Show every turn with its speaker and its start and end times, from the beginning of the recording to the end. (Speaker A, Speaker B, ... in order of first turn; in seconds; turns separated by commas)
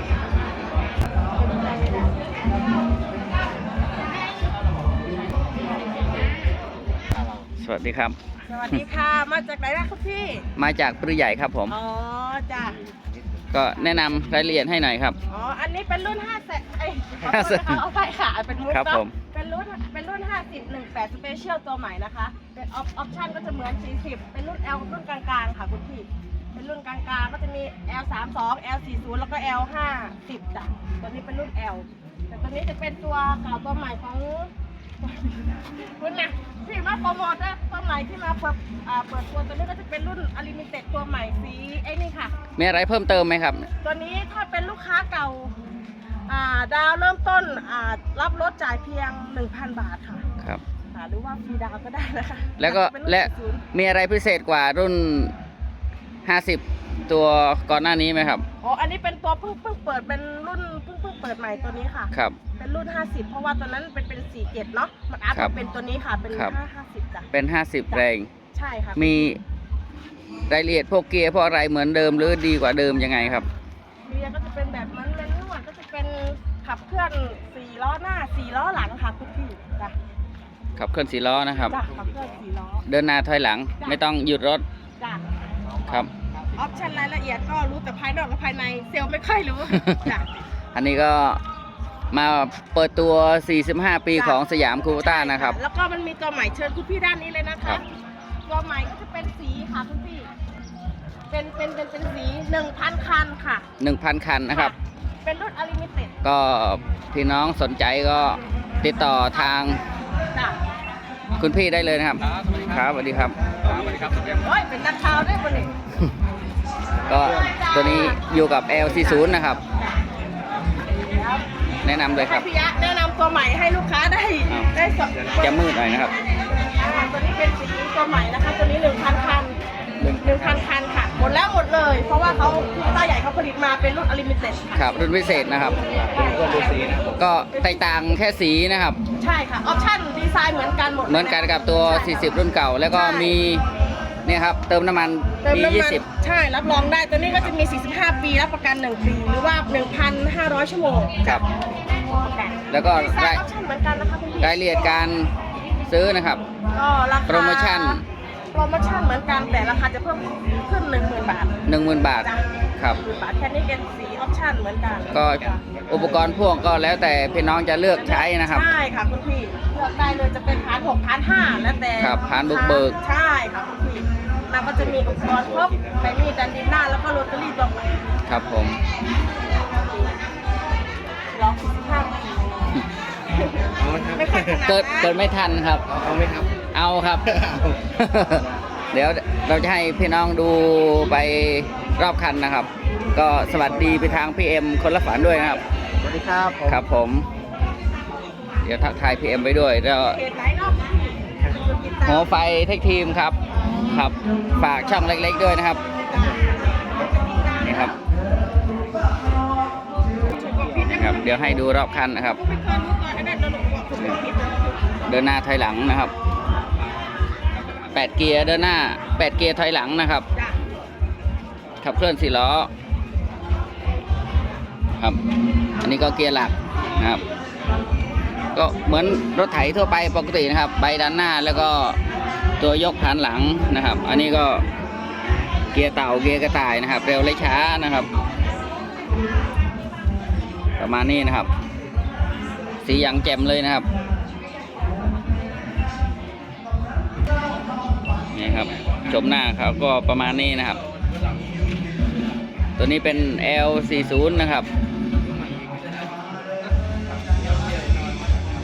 Speaker A: 7.6-8.2, Speaker B: 8.5-10.4, Speaker A: 10.6-11.7, Speaker B: 11.7-12.8, Speaker A: 13.5-15.2, Speaker B: 15.3-35.4, Speaker A: 17.2-17.8, Speaker A: 18.7-19.1, Speaker B: 36.0-42.3, Speaker A: 42.6-43.7, Speaker B: 43.8-45.5, Speaker B: 46.3-50.2, Speaker B: 50.9-53.6, Speaker A: 52.6-55.3, Speaker A: 56.2-58.4, Speaker B: 58.6-67.3, Speaker A: 62.1-62.4, Speaker A: 67.3-68.3, Speaker B: 68.5-69.2, Speaker A: 69.0-69.4, Speaker A: 70.5-73.5, Speaker B: 74.0-79.9, Speaker A: 80.8-81.8, Speaker B: 81.7-82.8, Speaker A: 82.8-84.6, Speaker B: 86.5-90.3, Speaker A: 90.7-91.4, Speaker A: 92.1-95.6, Speaker B: 94.1-94.4, Speaker B: 94.9-97.8, Speaker B: 98.5-100.3, Speaker B: 101.3-103.6, Speaker A: 103.8-104.7, Speaker B: 104.5-106.1, Speaker A: 106.2-109.8, Speaker A: 111.4-113.4, Speaker B: 113.7-115.7, Speaker A: 117.1-119.6, Speaker B: 117.3-118.2, Speaker B: 118.9-119.2, Speaker B: 119.8-120.0, Speaker B: 121.1-121.4, Speaker A: 121.8-122.5, Speaker B: 122.2-125.7, Speaker A: 125.4-126.1, Speaker B: 126.5-129.6, Speaker A: 130.0-130.4, Speaker B: 130.2-134.9, Speaker A: 134.7-135.8, Speaker B: 135.7-137.8, Speaker C: 136.2-137.1, Speaker A: 137.2-139.0, Speaker B: 139.2-142.4, Speaker A: 141.1-143.6, Speaker B: 142.9-143.4, Speaker A: 144.2-146.0, Speaker B: 145.4-151.4, Speaker B: 152.1-154.6, Speaker A: 152.7-153.4, Speaker A: 154.4-155.3, Speaker A: 155.9-156.4, Speaker B: 156.7-158.0, Speaker A: 157.3-158.0, Speaker B: 158.5-161.6, Speaker A: 161.7-163.0, Speaker B: 162.2-165.6, Speaker A: 165.1-168.7, Speaker B: 167.9-177.9, Speaker A: 172.0-173.0, Speaker A: 178.3-178.8, Speaker B: 179.7-180.2, Speaker B: 181.3-185.1, Speaker C: 183.8-184.6, Speaker A: 184.6-185.9, Speaker C: 185.9-186.5, Speaker A: 186.7-195.6, Speaker C: 187.4-187.7, Speaker C: 196.0-196.8, Speaker A: 196.6-197.3, Speaker A: 198.6-200.2, Speaker B: 200.0-202.3, Speaker A: 202.1-205.8, Speaker B: 206.0-207.9, Speaker A: 207.6-207.9, Speaker B: 210.3-211.3, Speaker A: 210.9-212.4, Speaker B: 212.3-214.8, Speaker A: 215.1-216.1, Speaker A: 217.9-220.2, Speaker A: 221.8-222.7, Speaker A: 225.8-227.2, Speaker A: 228.5-232.0, Speaker A: 232.6-234.6, Speaker A: 235.7-238.1, Speaker A: 240.8-241.5, Speaker A: 242.8-243.9, Speaker A: 248.3-250.8, Speaker A: 252.8-254.7